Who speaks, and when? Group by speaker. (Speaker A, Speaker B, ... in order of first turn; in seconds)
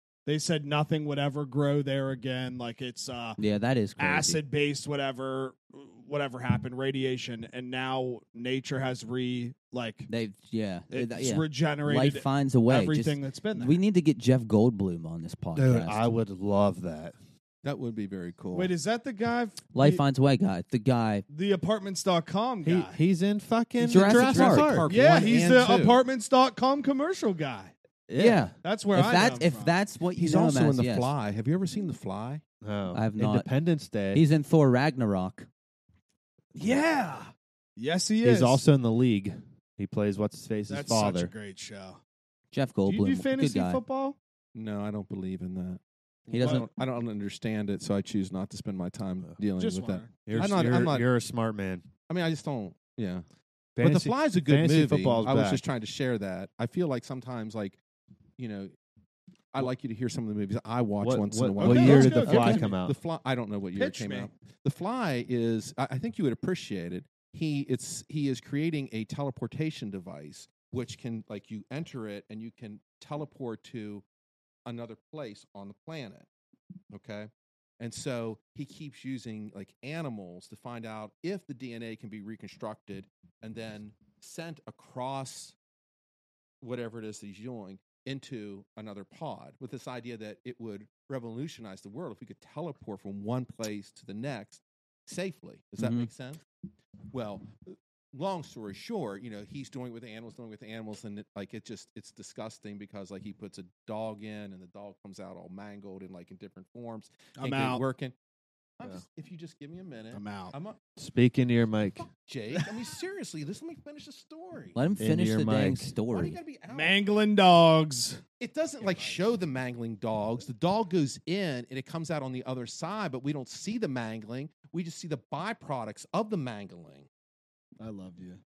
Speaker A: 0.3-3.4, 4.0-10.1, 10.9-13.8, 18.5-20.0, 21.3-23.0, 24.9-27.7, 28.6-29.7, 36.5-38.6, 40.7-42.0, 42.9-44.2, 49.6-50.6, 61.6-62.8, 63.8-64.3, 107.4-107.8, 110.1-110.5, 116.7-118.2, 127.8-128.4
Speaker B: 3.4-4.4, 10.1-16.0, 19.7-21.2, 23.8-24.8, 28.2-31.1, 32.9-33.5, 34.1-35.5, 42.5-43.8, 46.3-46.7, 95.8-96.1, 114.8-116.4
Speaker C: 15.6-17.2, 22.6-24.9, 28.1-28.4, 32.6-34.2, 38.2-41.3, 50.2-51.9, 53.8-55.6, 61.0-63.0, 111.0-112.1, 115.0-115.9
Speaker D: 17.6-18.7, 23.9-26.0, 30.2-32.4, 44.5-51.1, 52.1-53.2, 53.8-57.8, 58.4-58.7, 59.5-74.0, 74.7-76.3, 76.9-85.6, 86.6-96.4, 97.1-108.2, 108.8-110.8, 112.0-114.8, 116.1-117.0, 118.4-127.1